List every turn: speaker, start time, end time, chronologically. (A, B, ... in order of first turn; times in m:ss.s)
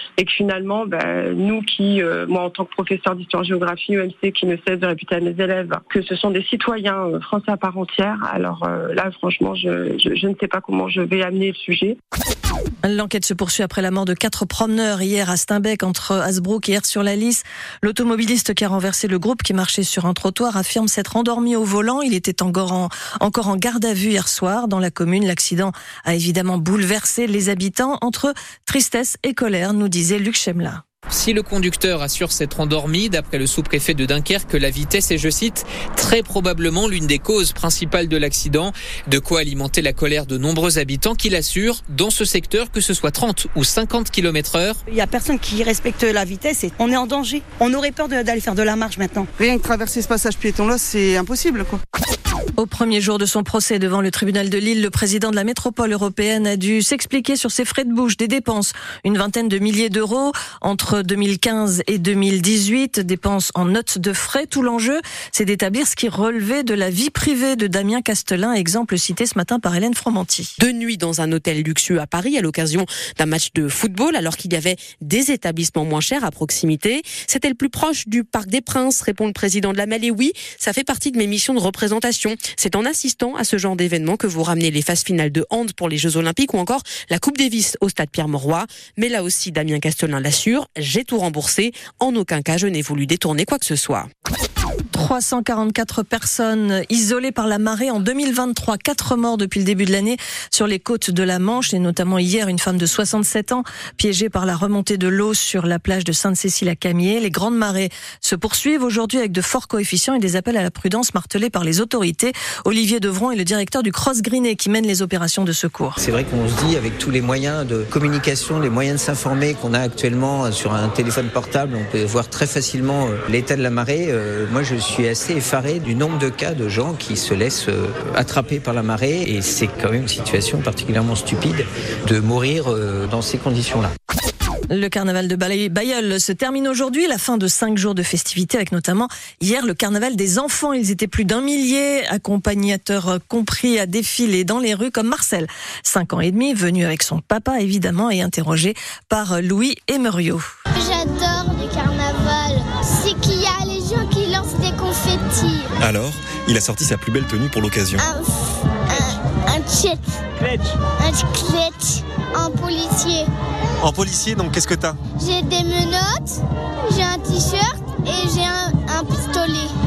0:00.2-0:12.0 A
0:12.8-0:30.8 B
0:31.1-0:44.8 C
0:44.9-0:49.3 D
0:49.4-0:51.8 E
0:52.6-1:10.5 B
1:10.6-1:34.1 F
1:34.9-1:56.0 B
1:56.0-2:13.9 G
2:14.7-2:30.4 B
2:30.7-2:35.7 H
2:35.8-2:38.1 I
2:38.0-2:40.2 H
2:40.9-2:43.3 H
2:43.8-2:45.0 I
2:45.2-2:49.7 H